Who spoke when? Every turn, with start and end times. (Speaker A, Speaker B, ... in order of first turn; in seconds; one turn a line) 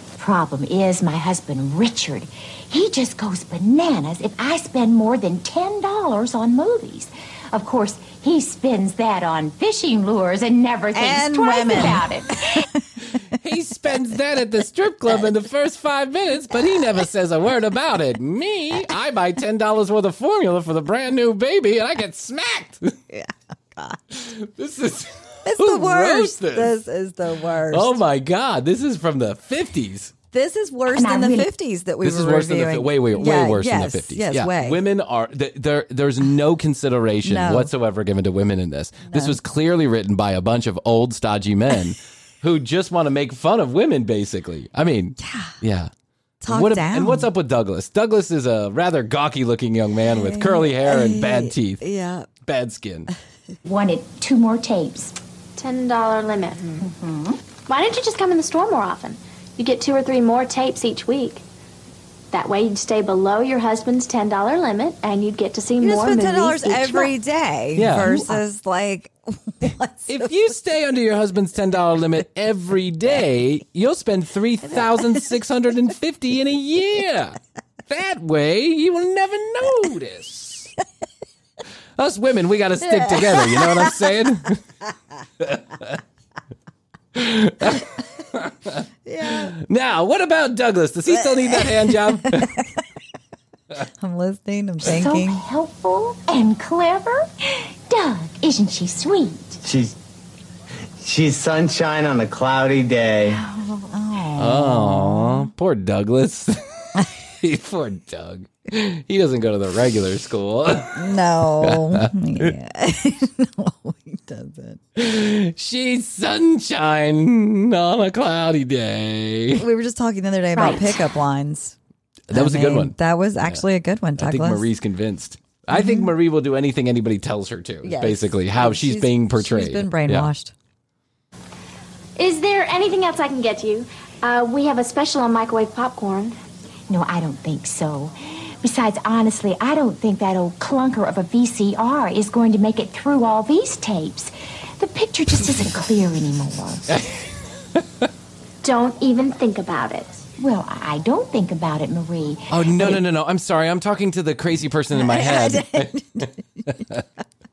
Speaker A: 0.2-12.6
Speaker B: 10.9-12.6
Speaker C: 13.4-22.9
Speaker B: 23.1-24.0
Speaker C: 24.1-26.8
Speaker B: 25.5-28.0
Speaker C: 27.7-30.1
Speaker B: 30.3-34.8
Speaker A: 30.9-31.5
Speaker C: 32.0-45.9
Speaker B: 37.2-37.7
Speaker B: 45.2-45.5
Speaker B: 46.4-47.3
Speaker C: 46.5-51.8
Speaker B: 50.1-52.3
Speaker C: 52.4-53.1
Speaker A: 53.6-55.1
Speaker D: 55.6-56.9
Speaker A: 56.8-57.4
Speaker D: 57.7-61.4
Speaker D: 62.3-67.1
Speaker B: 65.8-70.3
Speaker C: 67.8-68.3
Speaker C: 70.1-80.7
Speaker C: 82.0-84.6
Speaker B: 82.9-83.9
Speaker C: 85.4-86.0
Speaker C: 87.2-92.6
Speaker B: 89.1-89.5
Speaker B: 94.0-95.4
Speaker A: 94.8-99.6
Speaker E: 99.6-100.0
Speaker E: 101.0-103.4
Speaker B: 103.4-105.5
Speaker C: 104.4-111.0
Speaker B: 111.0-114.8
Speaker C: 111.6-112.5
Speaker C: 115.0-119.7
Speaker B: 119.6-121.8
Speaker D: 120.6-120.9
Speaker C: 122.3-123.6
Speaker B: 122.3-124.6
Speaker C: 124.2-130.3
Speaker B: 125.7-126.1
Speaker B: 127.8-130.5
Speaker D: 132.2-136.4
Speaker A: 136.9-146.9
Speaker D: 148.6-150.2
Speaker A: 150.4-153.0
Speaker C: 152.5-157.0
Speaker B: 154.9-156.7